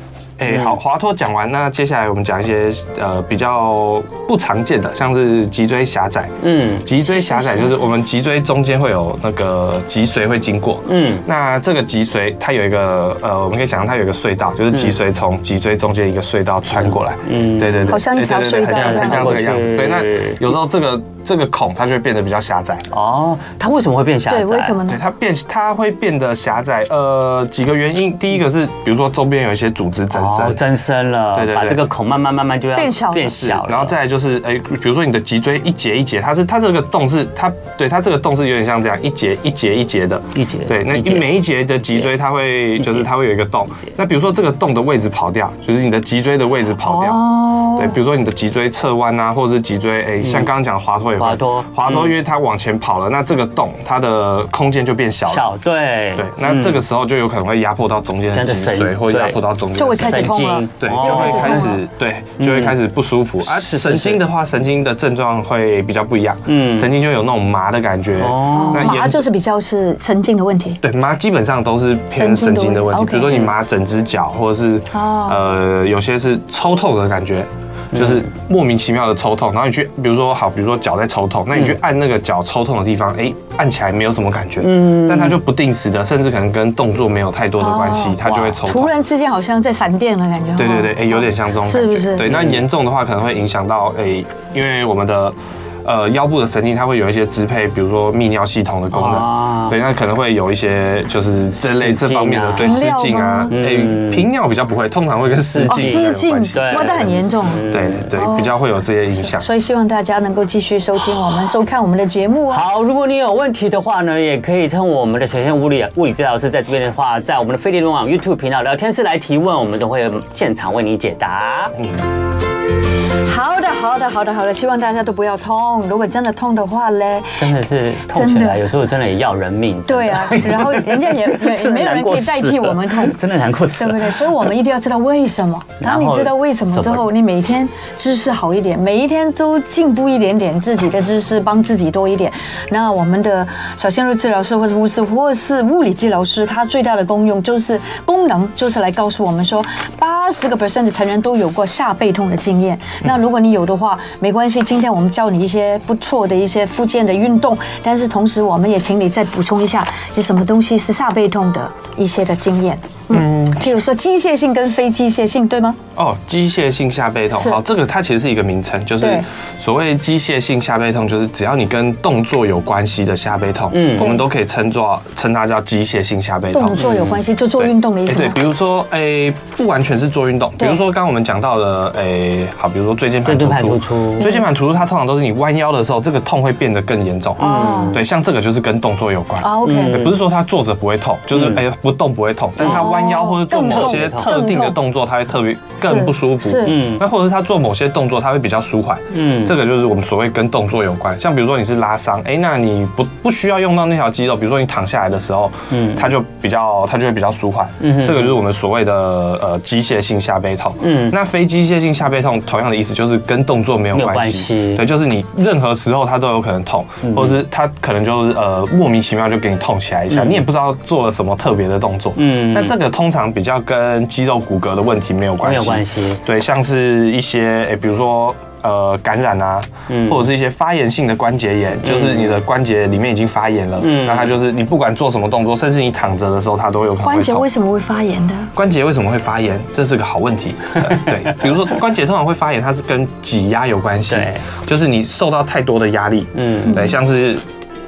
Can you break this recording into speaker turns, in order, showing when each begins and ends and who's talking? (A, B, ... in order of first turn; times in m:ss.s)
0:00.4-0:22.9 A
0:00.5-0:00.8 B
0:06.4-0:06.9 B
0:07.0-0:07.9 C
0:10.9-0:11.2 B
0:16.8-0:18.0 B
0:17.9-0:19.4 C
0:18.7-0:20.4 B
0:22.9-0:24.8 B
0:24.3-0:25.0 C
0:24.9-0:30.6 A
0:30.1-0:34.0 B
0:31.3-0:31.9 A
0:32.8-0:33.4 C
0:33.4-0:55.5 A
0:40.4-0:41.4 B
0:42.8-0:43.1 B
0:46.8-0:48.0 B
0:50.2-0:50.5 B
0:51.2-0:52.2 B
0:55.3-0:56.8 B
0:56.2-1:09.2 A
0:58.3-0:59.4 B
0:59.8-1:01.8 C
1:00.0-1:01.8 B
1:02.4-1:02.8 B
1:03.4-1:04.2 B
1:06.5-1:06.9 B
1:08.2-1:09.0 B
1:08.5-1:10.8 C
1:10.8-1:28.9 A
1:12.1-1:13.5 C
1:14.9-1:15.4 C
1:17.9-1:18.2 B
1:24.6-1:25.4 B
1:27.6-1:32.3 C
1:28.2-1:28.6 B
1:30.6-1:47.1 A
1:32.3-1:32.6 B
1:38.9-1:39.8 B
1:41.6-1:42.9 B
1:42.6-1:43.6 C
1:43.5-1:44.3 B
1:45.4-1:48.1 B
1:45.7-1:48.5 C
1:47.7-1:49.5 A
1:49.2-1:52.7 C
1:52.5-2:01.8 B
2:03.3-2:07.4 C
2:07.4-2:14.5 B
2:08.1-2:08.7 C
2:09.9-2:13.2 C
2:13.7-2:45.8 C
2:15.8-2:17.1 B
2:43.1-2:43.7 A
2:46.0-2:56.8 A
2:47.3-2:47.6 C
2:49.0-2:49.3 C
2:53.7-2:54.2 B
2:54.0-2:54.2 C
2:56.5-2:58.4 C
2:56.8-2:57.2 B
2:57.6-3:57.5 A
3:03.2-3:04.3 B
3:07.4-3:08.0 C
3:07.4-3:08.0 B
3:09.4-3:10.1 C
3:09.6-3:10.2 B
3:11.3-3:11.6 B
3:12.6-3:13.0 B
3:12.6-3:14.8 C
3:13.5-3:14.4 B
3:15.8-3:16.8 C
3:16.6-3:17.0 B
3:19.1-3:19.6 B
3:25.7-3:26.1 B
3:27.8-3:28.4 B
3:30.8-3:31.2 B
3:33.9-3:34.8 B
3:37.0-3:37.4 B
3:40.1-3:40.4 B
3:42.2-3:42.8 B
3:45.4-3:46.2 B
3:49.9-3:50.3 B
3:51.8-3:52.4 B
3:53.8-3:54.4 B
3:57.0-3:58.5 C
3:58.5-4:07.4 A
4:04.1-4:04.4 B
4:06.4-4:06.9 B
4:06.7-4:07.0 C